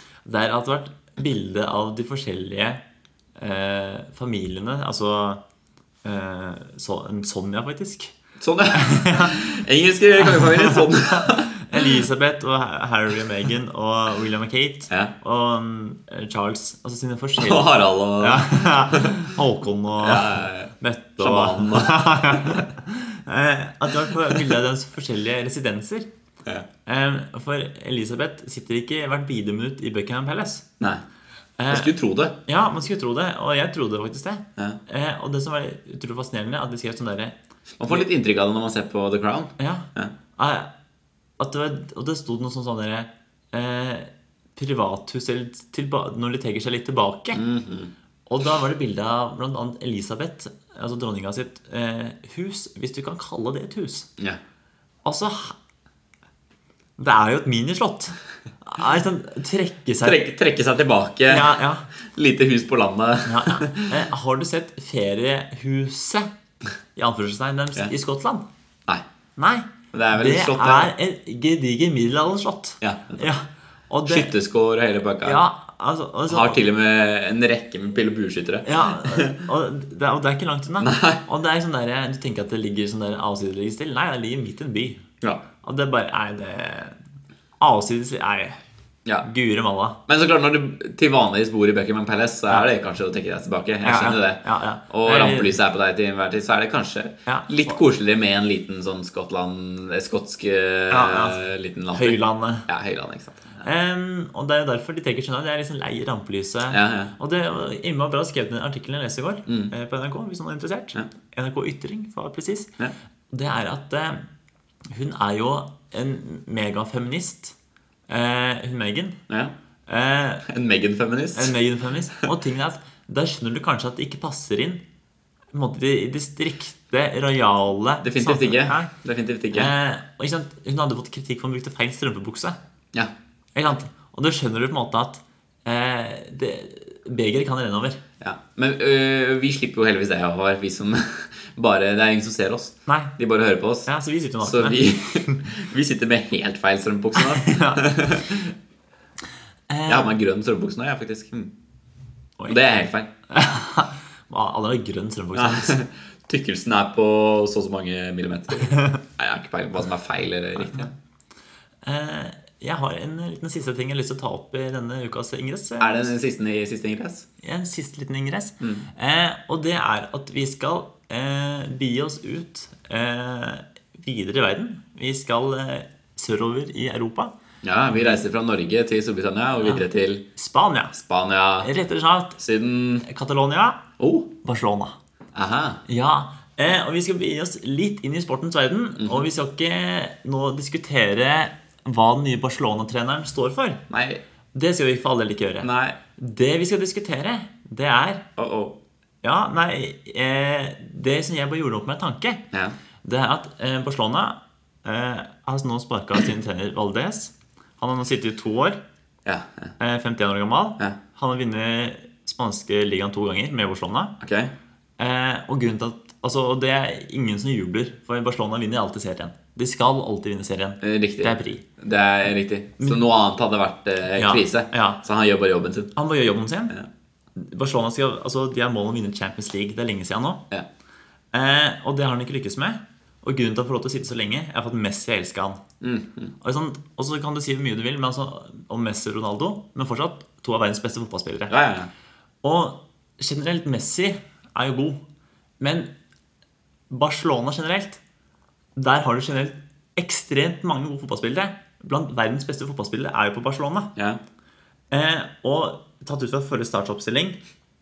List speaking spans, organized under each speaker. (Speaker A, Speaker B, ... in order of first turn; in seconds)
Speaker A: 0.2-2.8, 3.4-5.4, 6.0-8.1, 8.8-9.4, 10.3-26.1, 26.9-30.7, 31.6-31.9, 32.5-37.4, 39.6-40.7, 41.4-47.5, 48.3-54.1, 55.0-55.6, 57.0-60.2, 61.3-61.9, 63.3-66.3, 67.0-68.5, 69.4-74.3, 75.2-76.6, 78.7-85.0, 85.6-87.0, 87.6-88.6, 89.2-90.0, 93.8-95.6, 97.3-97.7, 100.9-101.4, 101.9-102.7, 103.6-112.7, 113.3-114.2, 114.9-117.5, 118.1-119.2, 119.9-120.5, 121.3-124.8, 125.5-128.9, 129.5-132.6, 133.6-138.0, 142.9-143.1, 143.9-145.4, 147.2-147.9, 149.7-150.2, 153.3-155.8, 161.8-166.1, 167.4-177.3, 180.4-181.0, 181.6-182.4, 183.0-183.9, 184.4-185.0, 185.9-193.8, 194.5-198.3, 199.2-202.4, 203.1-208.8, 209.8-214.2, 215.0-221.6, 224.2-225.0, 226.0-226.8, 227.4-230.4, 231.3-235.6, 236.4-241.5, 242.4-245.0, 245.6-245.9, 246.9-248.0, 248.8-253.9, 254.9-257.4
Speaker B: 8.4-11.9, 17.4-19.3, 20.0-22.7, 31.7-32.4, 37.8-40.1, 47.3-47.9, 60.0-61.5, 62.1-64.0, 69.9-70.9, 72.8-73.2, 74.1-75.4, 76.3-79.4, 80.8-81.2, 90.1-103.7, 106.7-107.1, 109.5-109.7, 119.3-119.5, 120.5-121.5, 128.0-129.7, 138.2-143.9, 144.4-148.5, 149.9-151.5, 152.5-153.1, 155.3-160.9, 165.8-167.3, 168.6-168.9, 177.6-180.3, 181.0-181.7, 182.4-183.1, 184.0-184.3, 185.3-185.8, 189.0-189.3, 193.9-194.2, 195.6-196.0, 198.4-198.8, 209.2-209.8, 214.2-214.5, 220.8-225.9, 235.8-236.3, 241.5-241.9, 254.0-254.2